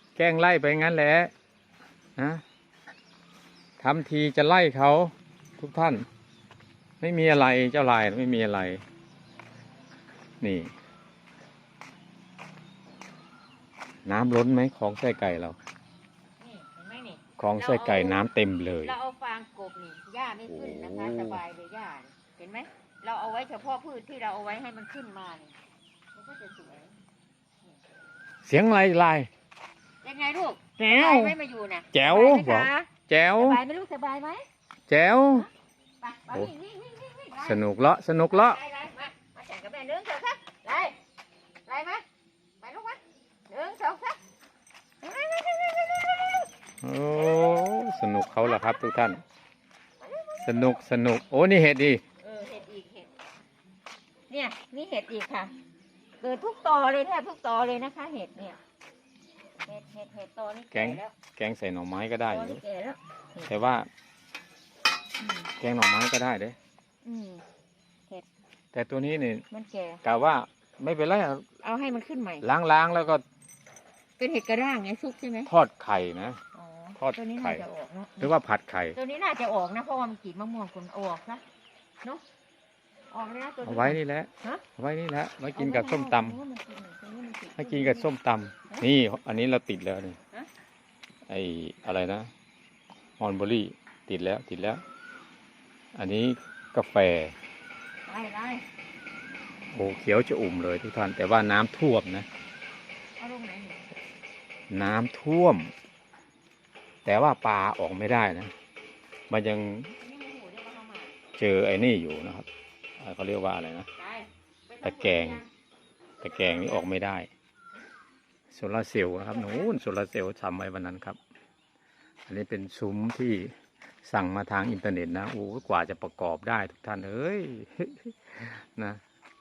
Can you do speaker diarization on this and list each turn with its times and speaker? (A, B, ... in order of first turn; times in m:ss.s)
0:00.2-0:01.3 A
0:02.2-0:02.4 A
0:03.8-0:06.1 A
0:07.0-0:08.8 A
0:10.4-0:10.7 A
0:14.1-0:15.6 A
0:16.4-0:18.2 B
0:17.4-0:18.9 A
0:18.8-0:25.6 B
0:20.5-0:21.4 A
0:26.2-0:26.9 B
0:28.4-0:29.3 A
0:30.0-0:34.5 B
0:30.8-0:31.4 A
0:31.9-0:33.6 A
0:34.9-0:35.5 A
0:36.0-0:37.6 B
0:37.4-0:38.6 A
0:38.2-0:41.0 B
0:41.7-0:42.0 B
0:42.6-0:44.2 B
0:45.0-0:46.4 B
0:46.8-0:49.2 A
0:48.4-0:49.0 B
0:50.0-0:50.8 B
0:50.4-0:52.0 A
0:52.2-0:53.1 B
0:54.3-0:55.5 B
0:56.2-0:58.6 B
0:59.6-1:01.1 B
1:00.7-1:02.6 A
1:02.3-1:03.5 B
1:03.4-1:03.9 A
1:05.2-1:05.5 B
1:05.6-1:06.6 A
1:07.0-1:07.4 B
1:08.7-1:09.4 A
1:09.5-1:10.0 B
1:10.0-1:11.4 A
1:11.6-1:12.5 B
1:12.4-1:13.2 A
1:14.2-1:15.5 B
1:15.5-1:16.4 A
1:16.5-1:18.3 B
1:17.0-1:17.6 A
1:18.2-1:19.0 A
1:19.0-1:21.4 B
1:23.1-1:24.6 B
1:23.6-1:26.4 A
1:25.5-1:28.1 B
1:27.6-1:30.2 A
1:31.3-1:32.3 A
1:33.2-1:34.8 A
1:35.9-1:37.3 A
1:38.1-1:38.6 B
1:39.7-1:42.3 A
1:43.2-1:43.9 B
1:44.7-1:45.7 A
1:47.0-1:48.5 A
1:49.3-1:49.9 A
1:50.0-1:51.2 B
1:51.4-1:52.5 A
1:53.0-1:53.9 A
1:54.0-1:55.5 B
1:54.8-1:55.4 A
1:56.2-1:57.3 A
1:56.2-1:56.8 B
1:58.5-2:01.2 A
1:59.3-1:59.7 B
2:02.3-2:03.5 A
2:04.0-2:09.0 A